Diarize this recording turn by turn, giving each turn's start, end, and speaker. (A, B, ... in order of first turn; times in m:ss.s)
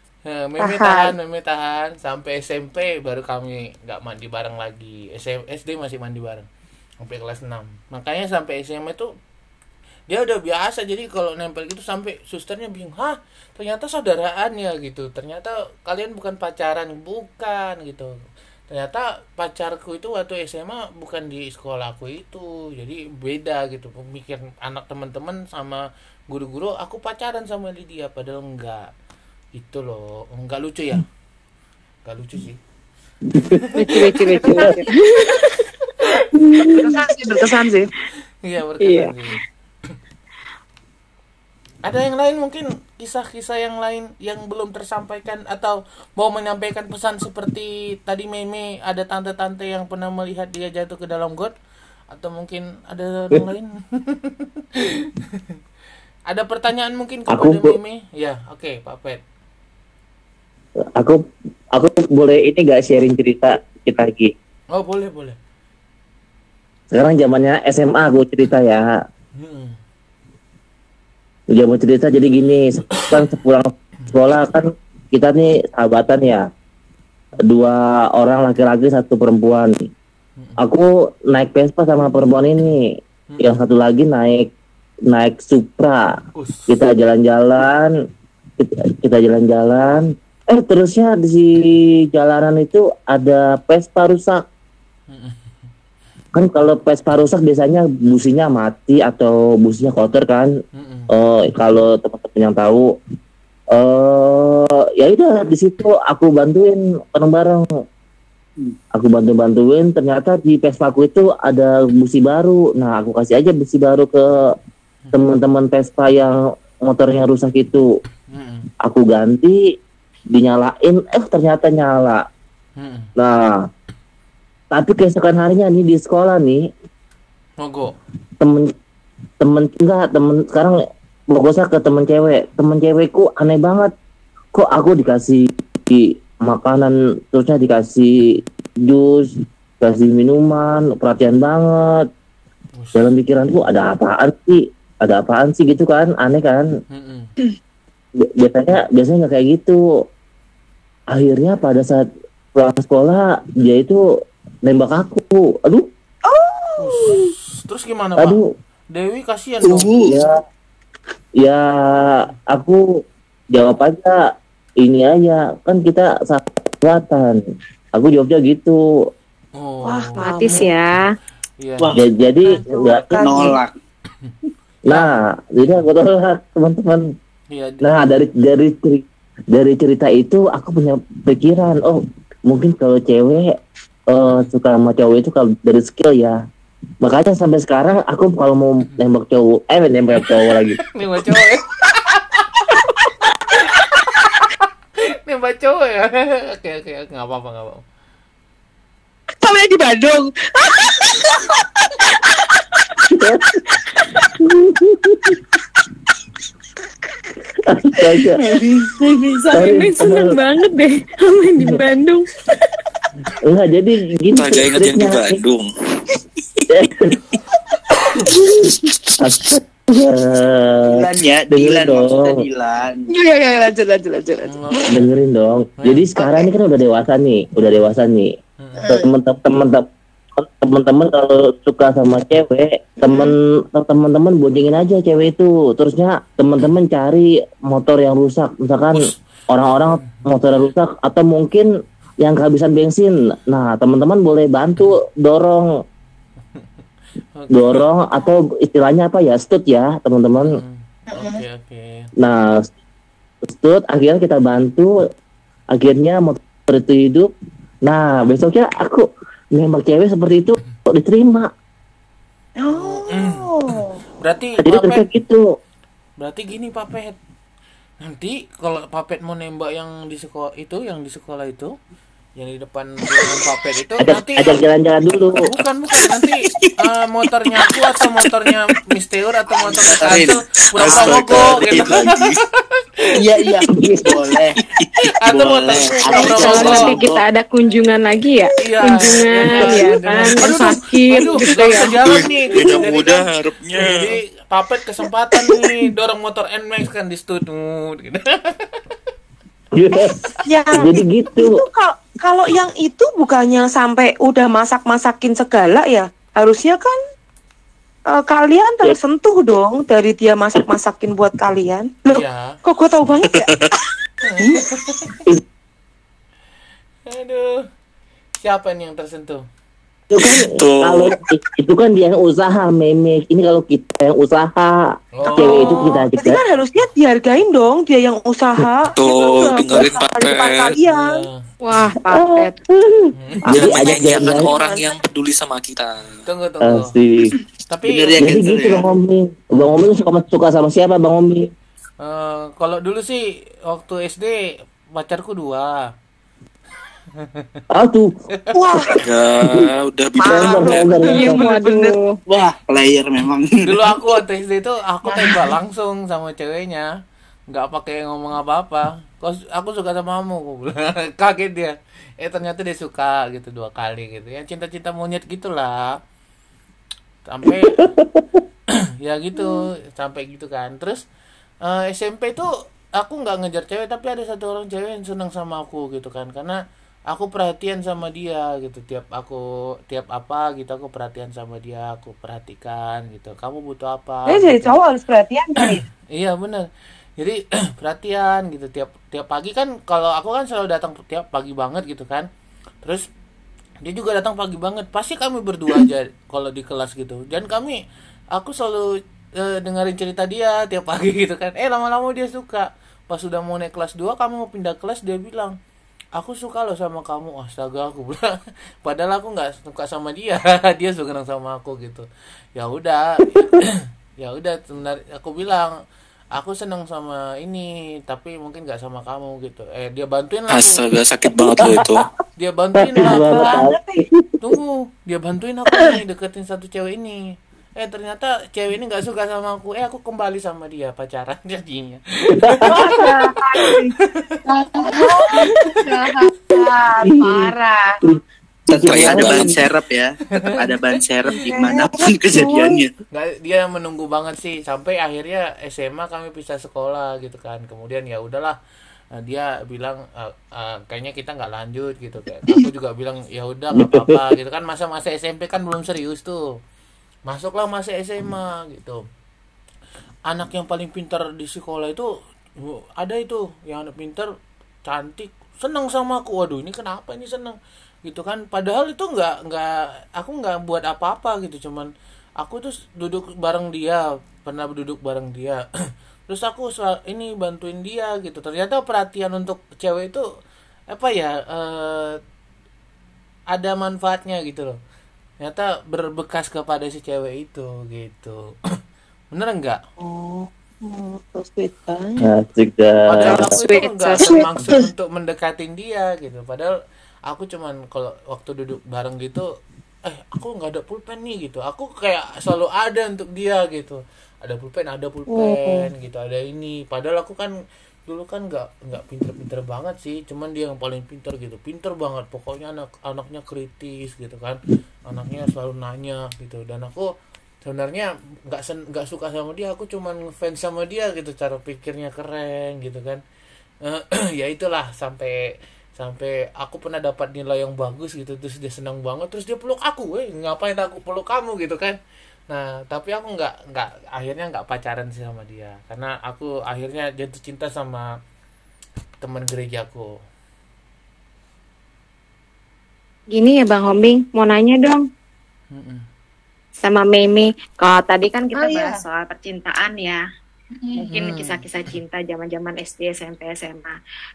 0:00.3-0:06.5 A
0:00.6-0:01.1 B
0:07.0-0:09.1 A
0:10.1-0:18.1 A
0:18.7-0:28.9 A
0:29.6-0:31.0 A
0:32.1-0:32.6 A
0:33.4-0:34.7 A
0:33.8-0:35.4 C
0:34.4-0:35.2 B
0:36.0-0:36.9 A
0:36.4-0:37.0 C
0:36.8-0:37.9 B
0:38.4-0:39.4 A
0:38.8-0:39.1 C
0:41.8-0:51.5 A
0:52.1-0:55.4 A
0:56.3-0:59.2 A
0:57.3-0:57.8 D
1:01.0-1:04.3 D
1:04.7-1:05.4 A
1:06.9-1:08.9 D
1:09.4-1:09.8 A
1:11.5-1:16.5 D
1:12.9-1:13.3 A
1:17.4-1:19.7 D
1:20.6-1:24.5 D
1:23.3-1:23.6 A
1:25.1-1:26.1 D
1:26.4-1:26.8 A
1:26.7-1:27.9 D
1:28.6-1:34.4 D
1:35.1-1:35.5 A
1:36.4-1:40.5 D
1:40.8-1:41.1 A
1:41.1-1:42.9 D
1:43.7-1:47.7 D
1:48.9-1:54.6 D
1:55.1-1:57.9 D
1:58.3-1:58.7 A
1:58.8-1:59.6 D
2:00.3-2:02.3 D
2:02.8-2:03.1 A
2:03.2-2:03.6 D
2:04.7-2:06.7 D
2:07.6-2:07.9 A
2:08.4-2:08.7 D
2:09.4-2:13.9 D
2:14.5-2:18.1 D
2:18.8-2:22.1 D
2:22.8-2:23.1 A
2:23.0-2:26.7 D
2:26.9-2:27.3 A
2:28.2-2:29.8 D
2:31.1-2:34.0 D
2:34.6-2:35.9 D
2:36.3-2:37.3 B
2:36.8-2:40.0 A
2:38.2-2:38.5 D
2:39.6-2:40.2 E
2:40.0-2:40.3 D
2:41.4-2:47.4 D
2:47.9-2:48.8 D
2:49.6-2:50.7 A
2:49.8-2:50.7 B
2:50.2-2:51.1 C
2:51.6-2:52.0 A
2:51.8-2:52.0 E
2:51.9-2:53.6 D
2:52.6-2:53.6 B
2:53.1-2:53.7 E
2:54.9-2:55.2 A
2:54.9-2:57.0 D
2:57.5-2:58.1 A
2:57.8-3:03.6 D
3:04.1-3:06.4 D
3:07.0-3:10.8 D
3:10.2-3:12.9 A
3:13.5-3:14.7 A
3:15.3-3:17.8 A
3:19.4-3:23.1 B
3:23.1-3:23.6 D
3:23.7-3:24.3 B
3:24.4-3:25.4 D
3:27.6-3:28.6 D
3:28.3-3:29.7 E
3:29.5-3:32.3 C
3:29.5-3:30.4 D
3:33.4-3:35.4 D
3:34.4-3:35.7 F
3:36.7-3:37.2 D
3:39.2-3:42.4 D
3:40.9-3:43.1 E
3:43.1-3:44.9 B
3:44.5-3:45.1 A
3:44.9-3:48.3 D
3:45.8-3:46.1 A
3:46.2-3:46.5 B
3:48.8-3:49.1 B
3:48.8-4:01.7 D
3:53.0-3:53.4 B
3:59.9-4:00.2 A
4:02.2-4:05.7 D
4:07.4-4:07.9 A
4:07.5-4:10.6 D
4:10.4-4:12.1 A
4:11.2-4:11.4 B
4:12.2-4:12.7 D
4:13.4-4:14.9 D
4:15.7-4:17.3 D
4:17.9-4:21.5 D
4:22.6-4:24.0 B
4:22.7-4:25.1 A
4:24.6-4:25.4 D
4:26.2-4:27.2 A
4:28.0-4:31.7 A
4:32.4-4:34.6 A
4:34.0-4:35.4 D
4:35.3-4:42.3 A
4:36.0-4:36.7 F
4:37.5-4:38.5 F
4:39.6-4:41.8 E
4:40.8-4:42.4 F
4:43.2-4:44.6 E
4:43.7-4:44.1 D
4:45.2-4:47.0 A
4:45.3-4:47.2 E
4:46.2-4:46.8 F
4:46.3-4:52.0 C
4:48.6-4:58.7 A
4:48.9-4:49.8 B
4:52.0-4:54.2 F
4:59.7-5:01.6 D
5:00.4-5:07.0 B
5:08.1-5:13.7 B
5:12.1-5:12.6 A
5:13.2-5:13.6 F
5:14.2-5:15.2 A
5:17.1-5:17.6 A
5:18.4-5:19.4 A
5:20.1-5:26.4 D
5:20.2-5:21.2 F
5:25.2-5:25.9 A
5:25.3-5:31.1 B
5:29.0-5:30.8 F
5:30.8-5:31.4 A
5:31.6-5:32.6 C
5:32.1-5:34.5 D
5:33.2-5:33.4 A
5:33.5-5:36.1 F
5:33.6-5:34.9 B
5:36.3-5:36.9 A
5:36.6-5:37.4 D
5:37.7-5:38.3 A
5:37.8-5:38.8 E
5:38.2-5:41.5 D
5:42.0-5:44.4 A
5:45.0-5:45.8 A
5:47.7-5:48.2 D
5:48.5-5:49.0 B
5:49.0-5:50.9 F
5:50.2-5:52.0 B
5:50.3-5:51.5 D
5:51.1-5:52.2 C
5:52.3-5:53.7 E
5:53.6-5:56.9 A
5:55.1-5:55.4 B
5:57.5-6:06.0 A
6:07.3-6:07.9 A
6:07.4-6:08.4 D
6:09.0-6:11.0 A
6:11.6-6:16.6 A
6:17.1-6:24.8 A
6:24.3-6:25.8 B
6:26.1-6:32.3 A
6:33.8-6:37.8 A
6:38.3-6:45.6 A
6:46.2-6:55.7 A
6:56.4-7:00.8 A
7:00.5-7:02.0 F
7:01.5-7:02.1 D
7:02.4-7:03.7 A
7:02.8-7:04.6 D
7:03.0-7:04.0 B
7:04.4-7:07.2 A
7:07.8-7:16.1 A
7:12.4-7:13.2 D
7:12.6-7:18.0 B
7:17.0-7:19.6 D
7:18.7-7:22.9 E
7:18.7-7:19.7 F
7:20.4-7:20.7 A
7:21.4-7:22.8 B
7:23.1-7:28.6 A
7:29.2-7:36.5 A
7:33.8-7:34.2 D
7:37.3-7:39.0 A
7:40.3-7:44.3 A
7:44.9-7:55.6 A
7:56.3-8:00.2 A
8:00.9-8:02.2 A
8:03.5-8:04.8 A
8:05.4-8:08.5 A
8:09.3-8:09.8 A
8:10.0-8:12.3 B
8:12.2-8:13.6 D
8:13.1-8:16.8 A
8:13.3-8:14.5 C
8:17.3-8:19.5 A
8:20.1-8:27.5 A
8:25.3-8:25.9 B
8:28.1-8:37.1 A
8:37.6-8:43.2 A
8:43.8-8:45.4 A
8:46.0-8:52.0 A
8:52.5-8:58.1 A
8:59.2-9:00.1 A
9:03.3-9:05.1 C
9:05.7-9:06.0 A
9:06.8-9:10.2 C
9:08.5-9:09.0 B
9:11.0-9:11.6 A
9:11.0-9:14.0 C